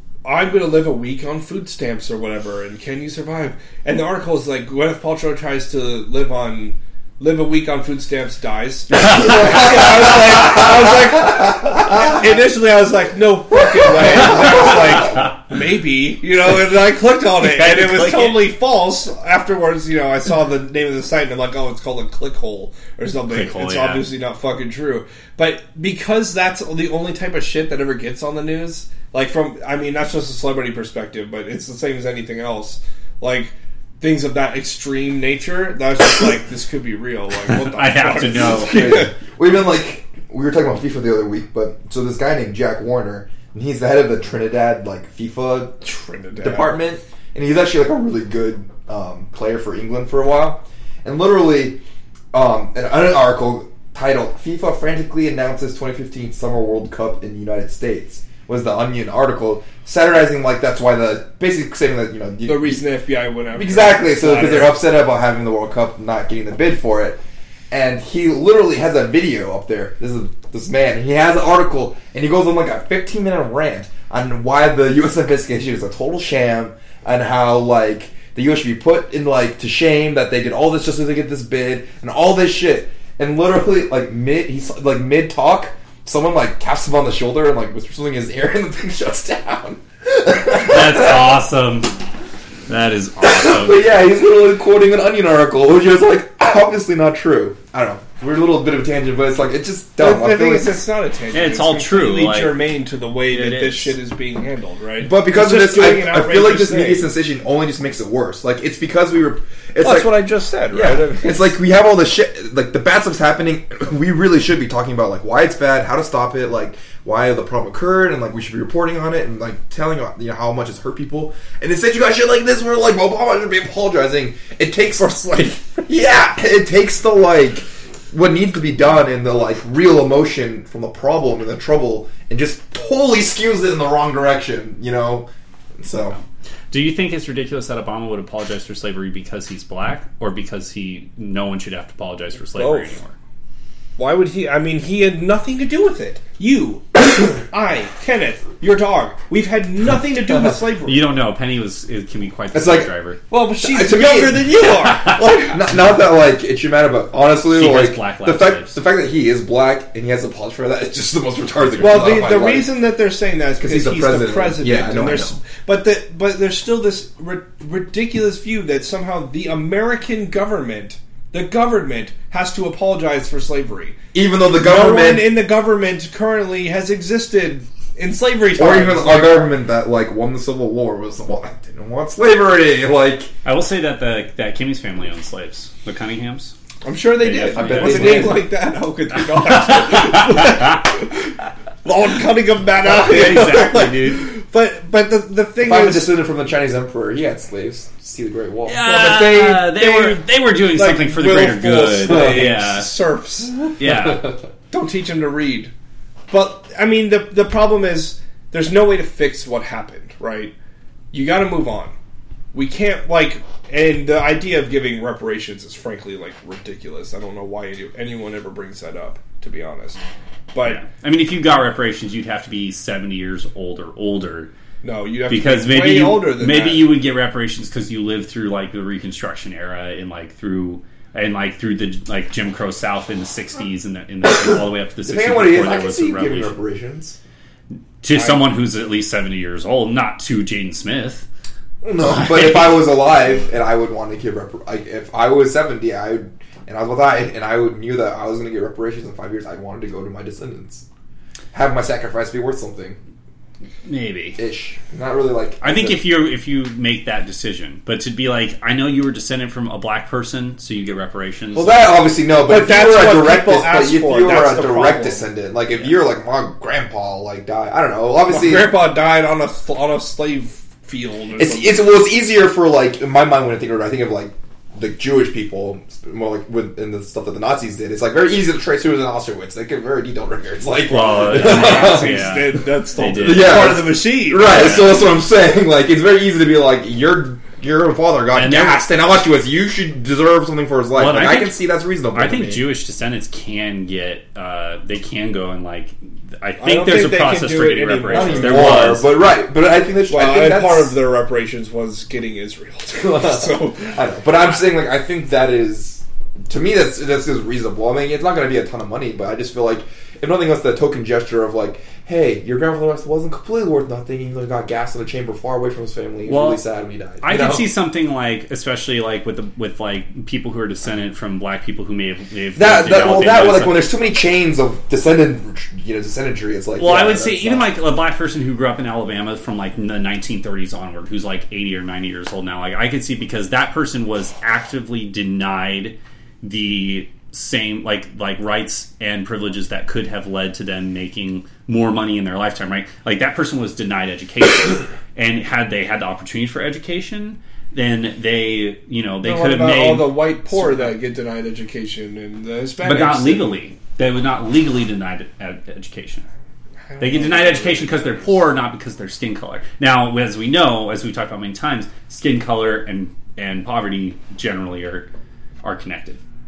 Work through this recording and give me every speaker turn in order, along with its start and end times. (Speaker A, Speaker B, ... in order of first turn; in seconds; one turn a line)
Speaker A: 0.2-39.1
Speaker B: 17.4-18.5
Speaker B: 23.3-24.1
Speaker B: 37.5-38.8
Speaker C: 38.5-45.8
Speaker A: 45.8-46.8
Speaker C: 46.4-51.8
Speaker C: 52.3-62.8
Speaker A: 62.5-64.8
Speaker C: 63.5-91.4
Speaker B: 90.5-92.0
Speaker B: 92.7-93.9
Speaker C: 93.2-100.8
Speaker A: 100.0-107.1
Speaker B: 101.3-102.6
Speaker B: 103.3-104.0
Speaker C: 105.0-135.3
Speaker A: 109.8-111.6
Speaker C: 135.8-136.2
Speaker B: 136.7-143.1
Speaker A: 142.6-142.9
Speaker A: 144.0-151.0
Speaker B: 150.8-153.2
Speaker C: 152.5-152.9
Speaker A: 153.3-155.8
Speaker C: 153.6-154.6
Speaker C: 155.4-162.7
Speaker B: 157.5-158.8
Speaker A: 161.8-174.0
Speaker C: 163.6-165.4
Speaker C: 174.1-175.4
Speaker A: 174.5-179.6
Speaker C: 178.6-183.3
Speaker B: 183.4-186.6
Speaker A: 186.8-196.2
Speaker B: 187.2-188.5
Speaker C: 187.5-188.5
Speaker B: 189.9-190.2
Speaker B: 192.8-194.3
Speaker C: 195.6-199.0
Speaker B: 198.7-202.9
Speaker A: 198.9-204.1
Speaker B: 203.8-204.4
Speaker A: 204.7-205.7
Speaker A: 206.3-210.5
Speaker A: 211.1-212.0
Speaker A: 212.5-220.0
Speaker A: 220.5-220.9
Speaker B: 220.6-224.5
Speaker A: 224.8-227.0
Speaker B: 225.3-236.6
Speaker C: 235.1-237.2
Speaker B: 238.0-241.3
Speaker C: 241.8-250.8
Speaker B: 242.0-242.8
Speaker C: 251.5-253.0
Speaker B: 253.9-254.4
Speaker C: 254.4-256.0
Speaker B: 255.6-262.0
Speaker C: 261.5-268.7
Speaker A: 262.4-265.3
Speaker A: 268.3-271.9
Speaker C: 271.4-292.7
Speaker B: 280.9-285.1
Speaker A: 281.1-284.9
Speaker B: 288.3-288.9
Speaker B: 291.0-299.2
Speaker A: 296.6-299.0
Speaker C: 298.1-301.0
Speaker A: 300.1-303.9
Speaker C: 303.0-317.7
Speaker B: 316.3-316.6
Speaker B: 317.2-324.0
Speaker C: 322.6-327.7
Speaker B: 326.8-350.9
Speaker A: 349.2-353.6
Speaker B: 352.8-356.2
Speaker A: 356.9-358.4
Speaker B: 357.0-365.1
Speaker B: 365.6-366.2